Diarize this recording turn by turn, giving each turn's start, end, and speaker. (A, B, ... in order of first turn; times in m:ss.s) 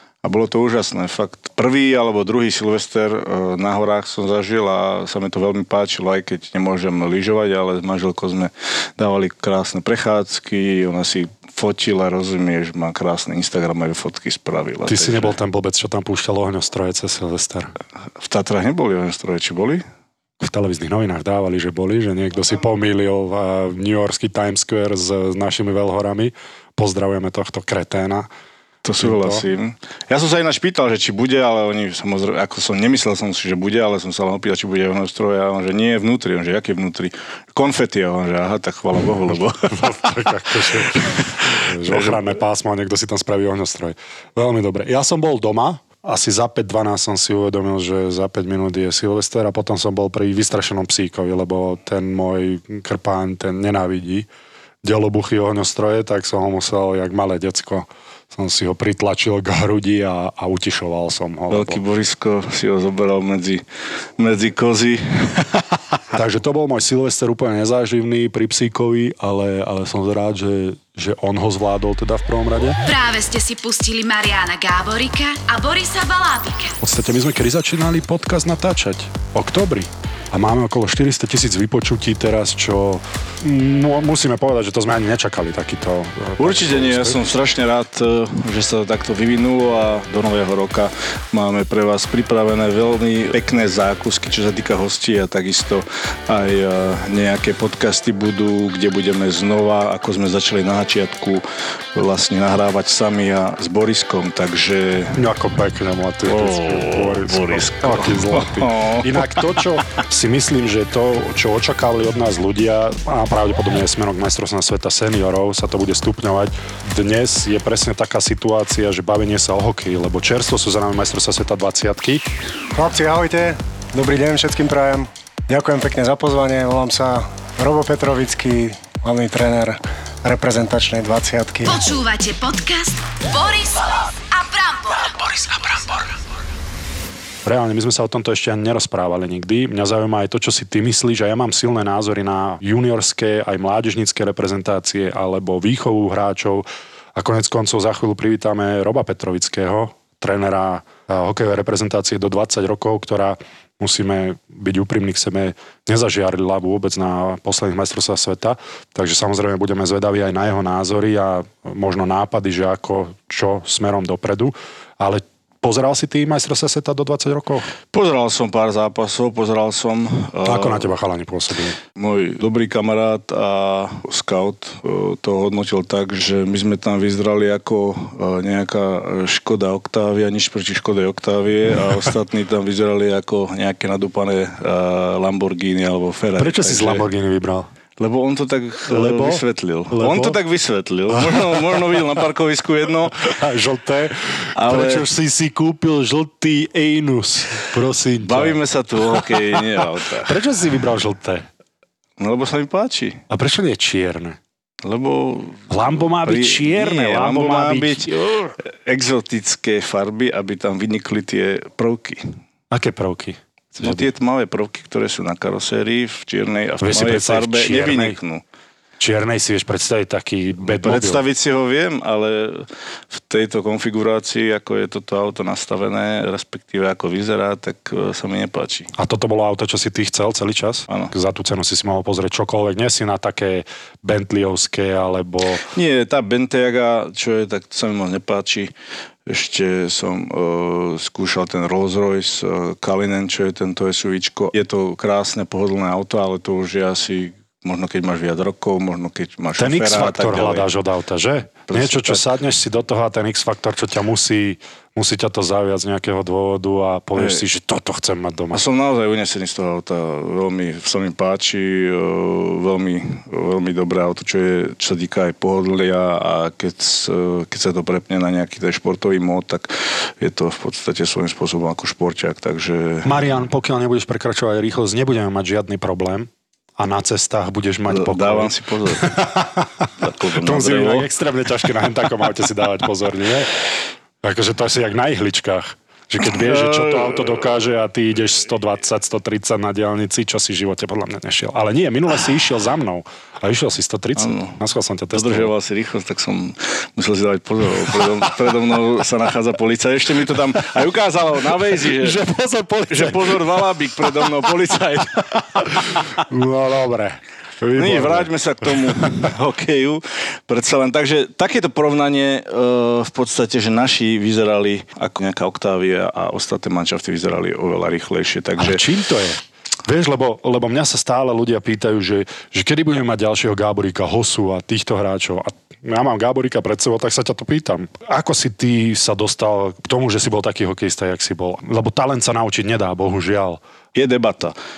0:00.2-0:15.4 A
0:14.9-0:17.7 B
0:18.2-0:19.8 A
0:20.4-0:28.3 B
0:28.8-0:42.2 A
0:29.0-0:29.4 B
0:39.7-0:54.3 B
0:54.8-1:01.8 B
1:01.5-1:03.6 A
1:04.2-1:05.5 A
1:06.1-1:12.8 B
1:12.8-1:16.8 C
1:16.8-1:27.2 B
1:26.4-1:41.4 A
1:41.9-1:45.2 A
1:45.1-2:02.2 B
1:46.2-1:49.6 A
2:02.8-2:11.8 D
2:11.6-2:16.1 C
2:17.4-2:47.7 B
2:47.9-2:50.9 A
2:50.4-2:51.8 B
2:52.0-3:07.0 A
3:06.4-3:07.7 B
3:08.0-3:13.3 A
3:08.9-3:10.4 B
3:11.1-3:11.8 B
3:13.2-3:18.6 B
3:14.5-3:15.0 A
3:18.2-3:20.4 A
3:19.1-3:19.6 B
3:20.2-3:21.4 B
3:22.2-3:23.2 A
3:23.3-3:24.4 B
3:24.8-3:28.1 A
3:25.7-3:28.5 B
3:28.8-3:32.3 A
3:32.7-3:34.0 B
3:33.8-3:38.4 A
3:36.8-3:38.2 B
3:39.0-3:41.2 B
3:40.7-3:48.9 A
3:49.0-3:55.6 B
3:55.7-3:58.7 A
3:59.3-4:10.7 A
4:09.6-4:18.6 B
4:11.7-4:12.2 A
4:17.2-4:17.4 A
4:18.5-4:33.2 A
4:33.0-4:39.9 B
4:37.9-4:39.2 A
4:40.0-4:41.0 A
4:40.4-4:43.5 B
4:44.2-4:55.5 B
4:46.2-4:47.4 A
4:54.2-4:54.6 A
4:55.1-5:02.2 A
5:02.0-5:03.6 B
5:02.9-5:06.1 A
5:06.0-5:09.3 B
5:07.8-5:18.8 A
5:18.6-5:33.6 B
5:33.9-5:34.5 A